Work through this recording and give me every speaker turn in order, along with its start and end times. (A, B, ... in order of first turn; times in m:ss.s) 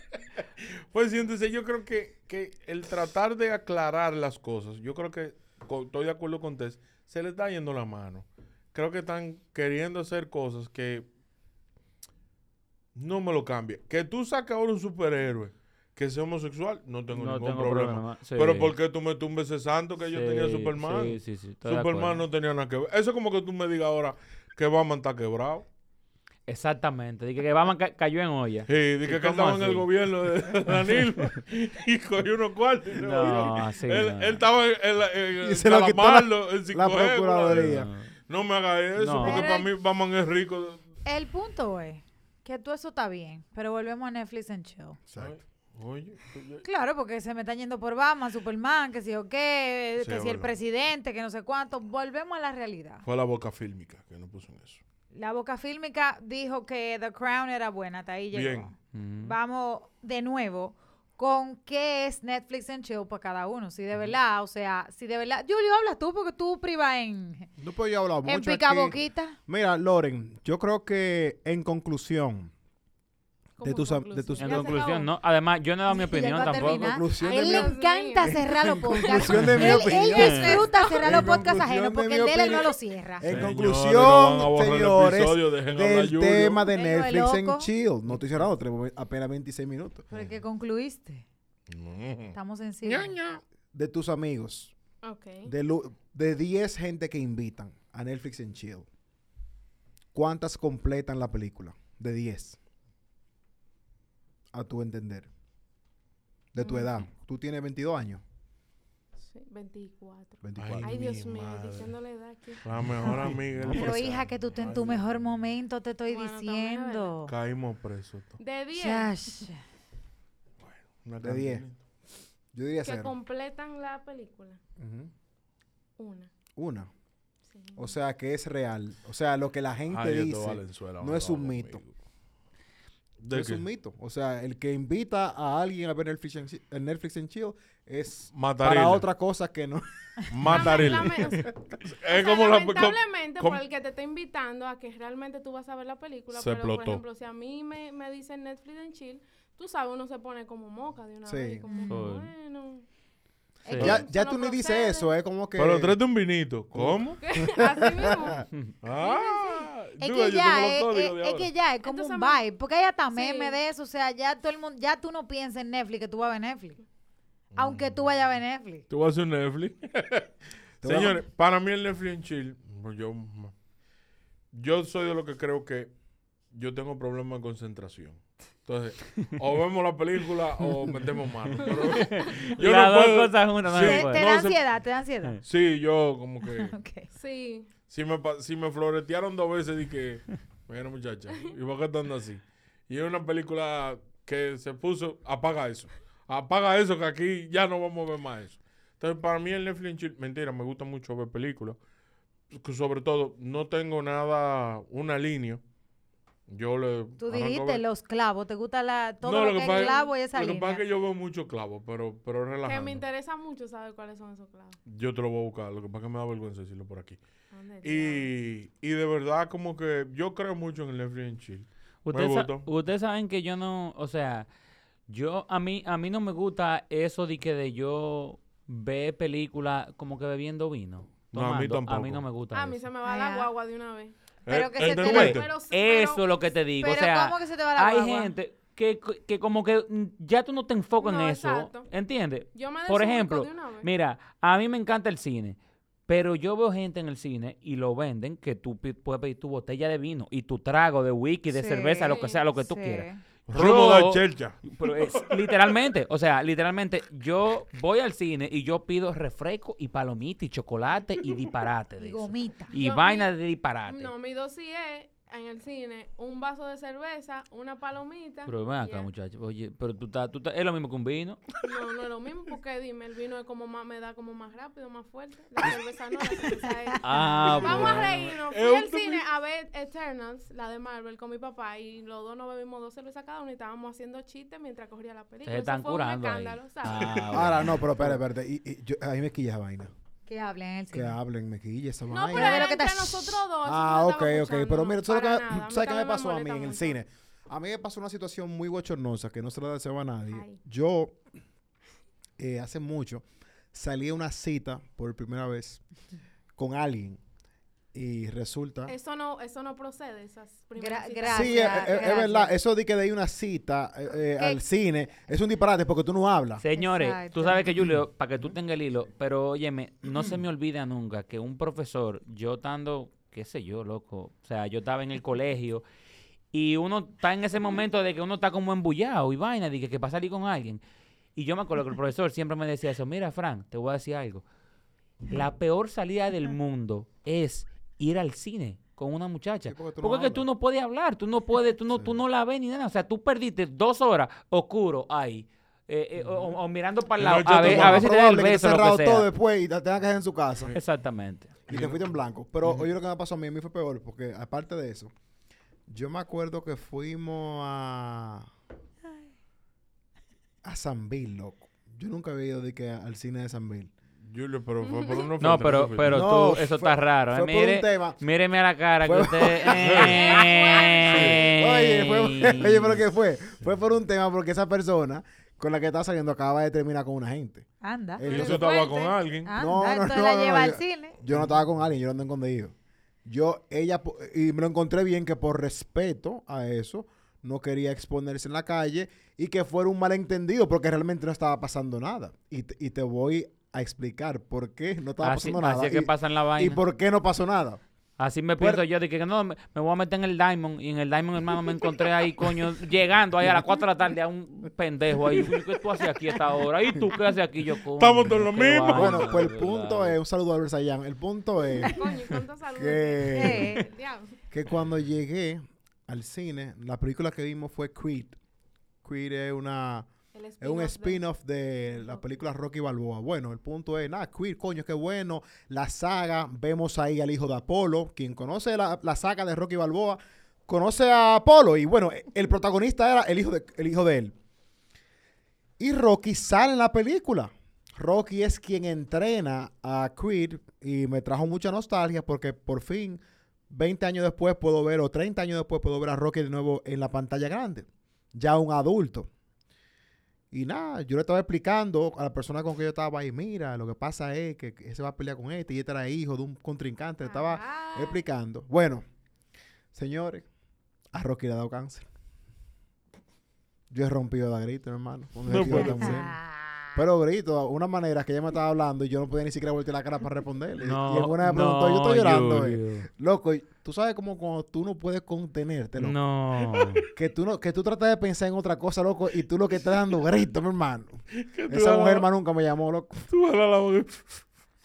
0:00.9-0:11.1 A
0:12.9-0:25.6 A
0:17.1-0:18.7 B
0:20.1-0:22.2 B
0:26.5-0:29.9 B
0:28.7-0:40.8 A
0:33.0-0:34.4 B
0:35.4-0:37.9 C
0:37.5-0:38.1 B
0:39.0-0:39.4 B
0:39.2-0:39.7 D
0:41.0-0:45.0 D
0:45.2-0:46.6 A
0:46.6-0:53.0 D
0:50.0-0:50.5 A
0:53.0-0:54.8 A
0:55.1-1:07.5 D
0:58.3-0:58.7 A
0:58.9-0:59.4 B
1:07.6-1:12.5 C
1:08.2-1:09.4 D
1:13.6-1:15.1 E
1:13.6-1:14.7 C
1:14.4-1:16.9 B
1:15.9-1:23.3 D
1:16.6-1:30.1 C
1:17.2-1:19.0 E
1:20.1-1:20.6 B
1:23.2-1:26.7 A
1:26.7-1:27.7 D
1:30.1-1:31.2 D
1:31.7-1:33.4 A
1:32.3-1:33.1 D
1:33.7-1:34.7 C
1:35.0-1:35.5 E
1:35.4-1:38.9 C
1:40.1-1:42.6 C
1:44.5-1:45.3 C
1:46.5-1:48.2 C
1:46.6-1:46.9 E
1:49.2-1:52.6 E
1:50.4-1:50.9 C
1:50.6-1:51.9 A
1:52.6-1:55.2 A
1:53.1-1:57.3 D
1:53.3-1:54.2 C
1:56.1-1:57.2 E
1:57.2-1:58.4 A
1:58.4-1:59.2 E
1:58.7-1:59.6 D
2:00.6-2:01.8 A
2:01.2-2:01.7 C
2:02.5-2:03.1 C
2:02.8-2:04.6 E
2:04.8-2:05.1 C
2:06.0-2:06.3 E
2:06.6-2:06.9 C
2:07.5-2:08.0 E
2:07.8-2:11.8 C
2:09.9-2:11.9 A
2:13.2-2:13.6 A
2:13.3-2:21.1 C
2:18.3-2:19.1 A
2:20.3-2:23.6 A
2:20.5-2:21.5 E
2:22.0-2:32.8 E
2:26.3-2:27.0 A
2:31.2-2:31.6 C
2:31.6-2:32.1 D
2:31.9-2:32.3 B
2:33.6-2:34.0 D
2:33.7-2:35.1 E
2:33.8-2:36.1 C
2:35.6-2:37.2 A
2:36.7-2:38.4 C
2:37.2-2:39.7 E
2:38.8-2:41.5 A
2:40.0-2:46.8 D
2:41.8-2:42.4 E
2:43.1-2:43.6 E
2:47.5-2:48.0 A
2:47.6-2:48.8 D
2:48.9-2:50.3 A
2:50.8-2:53.5 A
2:50.8-2:51.2 C
2:54.5-2:55.9 A
2:56.5-3:04.6 A
3:01.7-3:02.3 E
3:01.9-3:04.3 B
3:03.7-3:05.4 D
3:05.4-3:06.7 A
3:06.5-3:07.1 D
3:07.1-3:07.7 E
3:07.9-3:21.8 A
3:22.5-3:25.6 A
3:26.5-3:27.8 A
3:27.2-3:30.8 D
3:29.2-3:33.0 A
3:32.6-3:34.8 E
3:34.8-3:37.2 A
3:37.5-3:38.3 E
3:37.8-3:42.7 A
3:42.0-3:44.5 B
3:45.1-3:52.8 B
3:51.3-3:52.2 A
3:52.5-3:54.1 E
3:53.0-3:53.5 D
3:54.4-3:55.5 A
3:54.5-3:55.4 D
3:54.8-3:56.2 E
3:55.0-4:24.1 B
3:56.8-3:58.3 D
4:01.0-4:01.9 E
4:02.5-4:03.9 E
4:11.5-4:13.2 D
4:12.0-4:12.4 E
4:13.5-4:15.7 A
4:22.0-4:22.7 D
4:22.7-4:23.3 E
4:23.8-4:29.1 E
4:28.4-4:31.4 B
4:31.6-4:37.0 E
4:37.0-4:38.3 B
4:37.1-4:37.9 D
4:37.6-4:47.1 E
4:37.6-4:39.2 A
4:45.4-4:48.1 B
4:47.1-4:47.5 A
4:47.3-4:49.9 C
4:50.3-4:51.2 D
4:50.9-4:52.8 C
4:52.1-4:57.0 E
4:52.3-4:53.4 D
4:53.6-5:01.2 C
5:00.3-5:00.6 E
5:02.4-5:05.8 C
5:06.6-5:07.2 C
5:07.9-5:08.9 C
5:08.8-5:12.2 E
5:10.8-5:12.5 D
5:11.2-5:16.6 C
5:16.6-5:25.8 B
5:16.7-5:17.9 D
5:26.5-5:30.8 B
5:31.4-5:34.4 B
5:35.3-5:49.3 B
5:39.6-5:40.5 C
5:47.2-5:48.1 A
5:47.6-5:50.7 C
5:50.7-5:51.5 B
5:51.7-5:55.1 C
5:51.7-5:52.1 A
5:55.9-5:58.5 C
6:00.6-6:03.9 C
6:04.2-6:06.2 A
6:04.8-6:05.3 E
6:05.4-6:13.0 B
6:06.1-6:08.2 C
6:09.0-6:10.1 C
6:09.8-6:10.3 A
6:10.0-6:11.5 E
6:11.1-6:11.3 A
6:11.2-6:17.7 C
6:17.8-6:21.2 D
6:18.2-6:18.7 C
6:18.2-6:19.5 A
6:18.7-6:19.1 E
6:19.5-6:22.7 C
6:23.2-6:37.8 C
6:35.2-6:36.8 B
6:38.2-6:50.2 B
6:38.6-6:38.8 C
6:48.0-6:49.4 A
6:48.9-6:52.1 C
6:51.8-6:54.3 E
6:52.7-6:53.8 C
6:53.3-6:53.9 D
6:54.5-6:58.4 C
6:59.0-7:00.1 C
7:00.3-7:01.2 E
7:00.6-7:14.3 C
7:01.9-7:02.2 E
7:15.8-7:29.3 C
7:30.5-7:39.0 C
7:37.2-7:38.2 E
7:39.9-7:40.4 C
7:41.1-7:42.0 C
7:43.9-7:46.4 C
7:45.5-7:46.2 A
7:45.6-7:46.8 D
7:46.9-7:56.2 C
7:50.8-7:53.1 B
7:56.0-7:57.0 B
7:57.1-8:03.2 C
8:01.3-8:02.3 A
8:03.3-8:04.4 A